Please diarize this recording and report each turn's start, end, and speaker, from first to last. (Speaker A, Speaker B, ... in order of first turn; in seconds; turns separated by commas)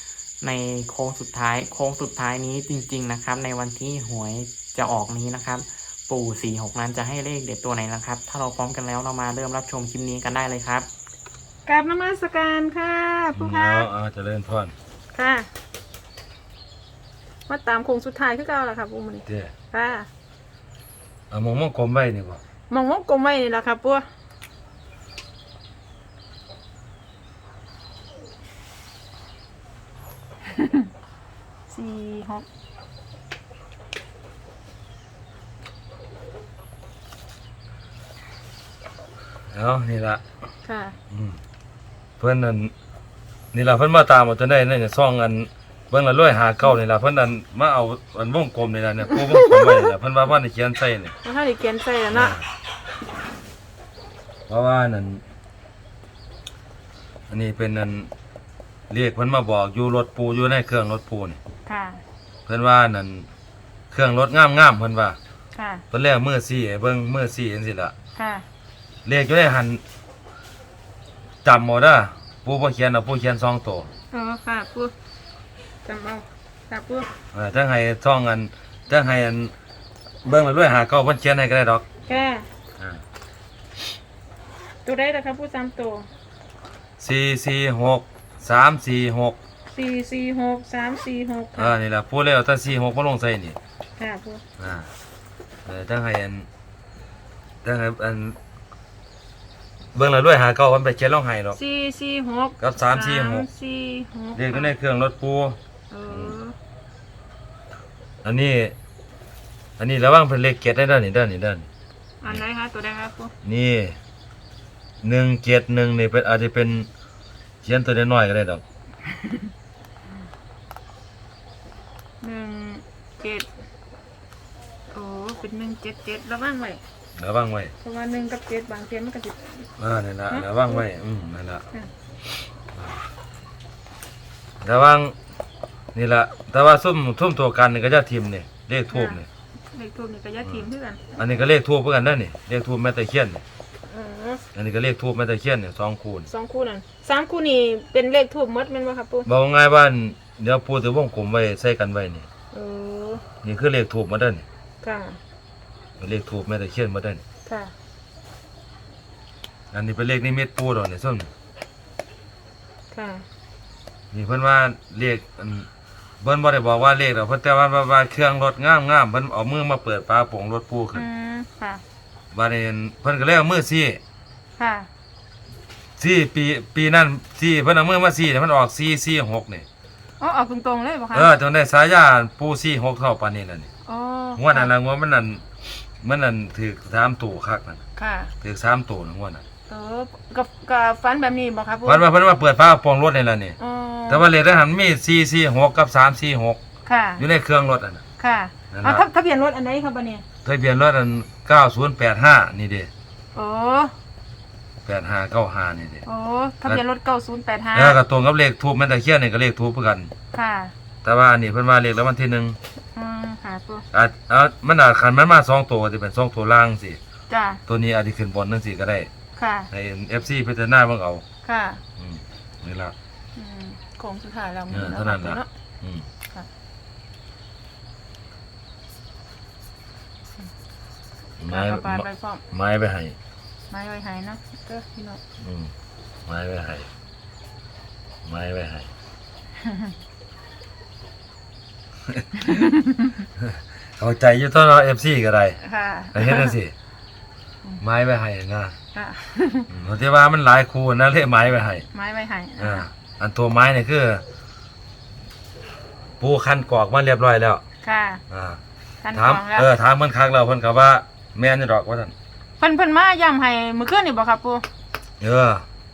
Speaker A: 0.4-10.9, Speaker B: 11.7-13.9, Speaker C: 13.3-14.7, Speaker B: 15.1-15.5, Speaker B: 17.5-20.1, Speaker C: 19.3-19.5, Speaker C: 21.3-22.4, Speaker B: 22.7-24.1, Speaker B: 30.5-30.9, Speaker B: 31.7-32.5, Speaker C: 39.5-40.2, Speaker B: 40.6-41.0, Speaker C: 41.1-41.4, Speaker C: 42.2-42.7, Speaker C: 43.5-51.1, Speaker B: 49.1-49.9, Speaker B: 51.2-52.4, Speaker C: 52.1-52.4, Speaker C: 54.5-55.2, Speaker C: 57.3-58.1, Speaker C: 58.9-61.4, Speaker B: 61.7-62.0, Speaker C: 62.5-63.3, Speaker C: 63.9-65.2, Speaker B: 65.5-65.8, Speaker C: 65.9-67.9, Speaker B: 68.2-68.4, Speaker C: 69.0-69.8, Speaker C: 71.4-73.9, Speaker B: 74.1-74.9, Speaker B: 75.8-77.1, Speaker C: 77.3-79.5, Speaker C: 80.2-82.2, Speaker B: 82.1-82.5, Speaker B: 84.8-86.1, Speaker C: 87.0-89.4, Speaker B: 89.7-91.7, Speaker C: 91.6-93.6, Speaker B: 94.0-94.4, Speaker C: 94.6-94.9, Speaker C: 95.7-96.5, Speaker C: 97.6-98.4, Speaker C: 100.0-101.6, Speaker B: 101.5-104.7, Speaker C: 102.6-103.5, Speaker C: 104.3-105.6, Speaker B: 105.9-106.5, Speaker C: 106.1-106.4, Speaker C: 108.2-108.8, Speaker C: 109.8-111.7, Speaker B: 112.2-113.3, Speaker C: 113.4-114.0, Speaker C: 115.0-116.9, Speaker C: 117.6-118.6, Speaker B: 122.2-123.5, Speaker B: 124.9-126.8, Speaker C: 127.2-127.7, Speaker B: 127.8-129.7, Speaker C: 129.8-131.6, Speaker B: 130.3-130.8, Speaker C: 134.6-135.1, Speaker C: 135.9-139.2, Speaker B: 138.9-139.2, Speaker B: 139.7-141.0, Speaker C: 141.2-143.4, Speaker B: 143.9-144.4, Speaker C: 144.5-146.3, Speaker B: 146.3-149.3, Speaker C: 149.2-152.3, Speaker B: 152.5-153.2, Speaker C: 153.4-154.4, Speaker B: 154.8-155.2, Speaker C: 156.0-157.2, Speaker B: 157.4-157.7, Speaker C: 159.7-161.3, Speaker B: 162.9-163.2, Speaker C: 164.1-165.7, Speaker C: 166.2-171.0, Speaker B: 170.9-171.8, Speaker C: 172.3-174.0, Speaker B: 174.6-174.9, Speaker C: 176.0-179.7, Speaker B: 180.2-181.3, Speaker C: 181.1-183.7, Speaker B: 183.8-184.7, Speaker C: 184.3-185.4, Speaker C: 186.0-187.8, Speaker B: 187.9-188.3, Speaker C: 188.4-189.4, Speaker B: 189.7-192.0, Speaker C: 191.8-193.6, Speaker B: 193.6-194.2, Speaker C: 194.1-196.6, Speaker B: 196.8-197.2, Speaker C: 197.2-198.0, Speaker B: 198.2-200.2, Speaker C: 198.7-199.0, Speaker C: 200.4-202.9, Speaker B: 203.3-203.9, Speaker C: 204.8-206.0, Speaker B: 206.0-208.0, Speaker C: 207.7-210.1, Speaker B: 210.3-210.7, Speaker C: 211.0-212.6, Speaker B: 212.9-213.8, Speaker C: 213.9-217.0, Speaker B: 217.3-217.6, Speaker C: 217.7-219.1, Speaker B: 219.4-219.7, Speaker C: 219.7-221.2, Speaker B: 221.4-221.8, Speaker C: 222.0-222.9, Speaker B: 223.3-225.4, Speaker C: 224.7-226.1, Speaker C: 231.4-233.2, Speaker B: 231.5-232.4, Speaker B: 233.7-235.2, Speaker C: 235.4-235.7, Speaker C: 236.3-236.9, Speaker C: 238.2-238.9, Speaker B: 242.4-243.2, Speaker C: 243.4-245.6, Speaker B: 245.6-246.5, Speaker C: 246.1-246.7, Speaker C: 247.8-248.7, Speaker B: 248.9-249.7, Speaker C: 249.7-251.8, Speaker B: 251.9-252.8, Speaker C: 252.6-254.2, Speaker C: 256.2-257.6, Speaker B: 257.8-258.2, Speaker C: 258.3-258.6, Speaker B: 259.0-259.7, Speaker C: 259.1-262.1, Speaker B: 262.6-264.6, Speaker C: 265.2-265.7